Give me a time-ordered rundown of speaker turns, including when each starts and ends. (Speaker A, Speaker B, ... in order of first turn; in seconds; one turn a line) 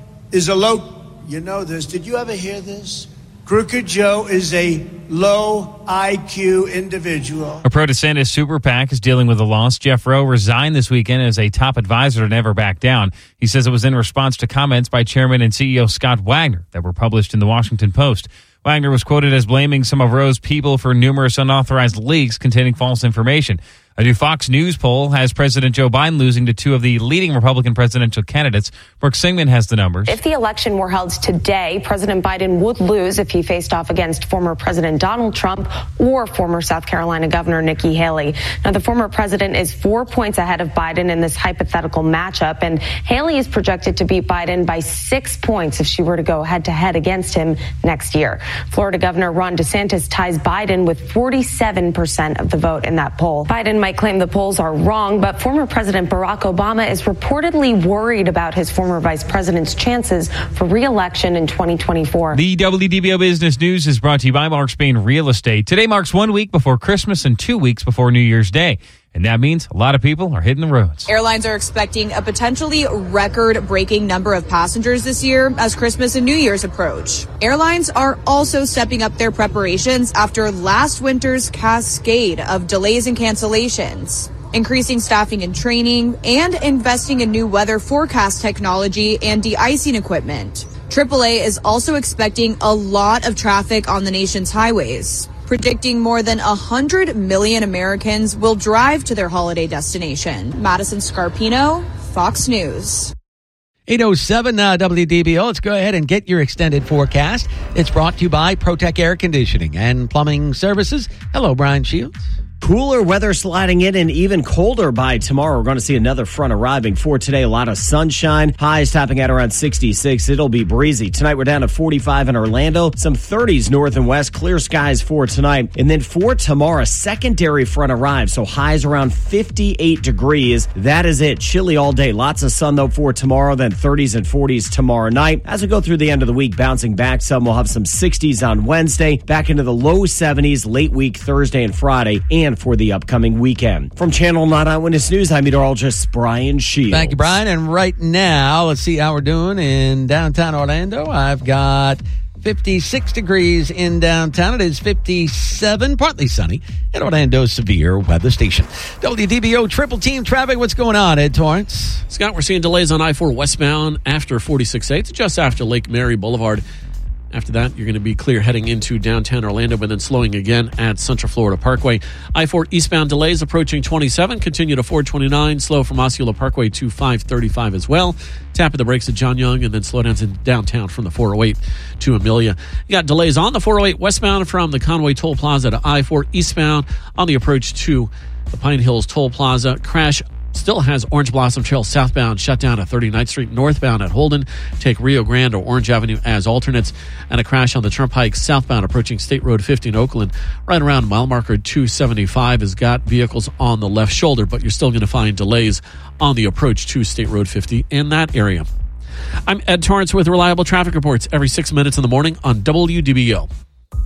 Speaker A: 0.3-7.6
Speaker B: 7.7-30.2
Speaker C: 30.1-62.4
Speaker B: 62.3-71.1
Speaker D: 71.1-103.1
Speaker E: 103.9-112.2
Speaker F: 112.6-147.3
Speaker E: 146.9-162.0
Speaker G: 162.1-166.6
Speaker G: 167.3-208.7
Speaker G: 209.5-213.5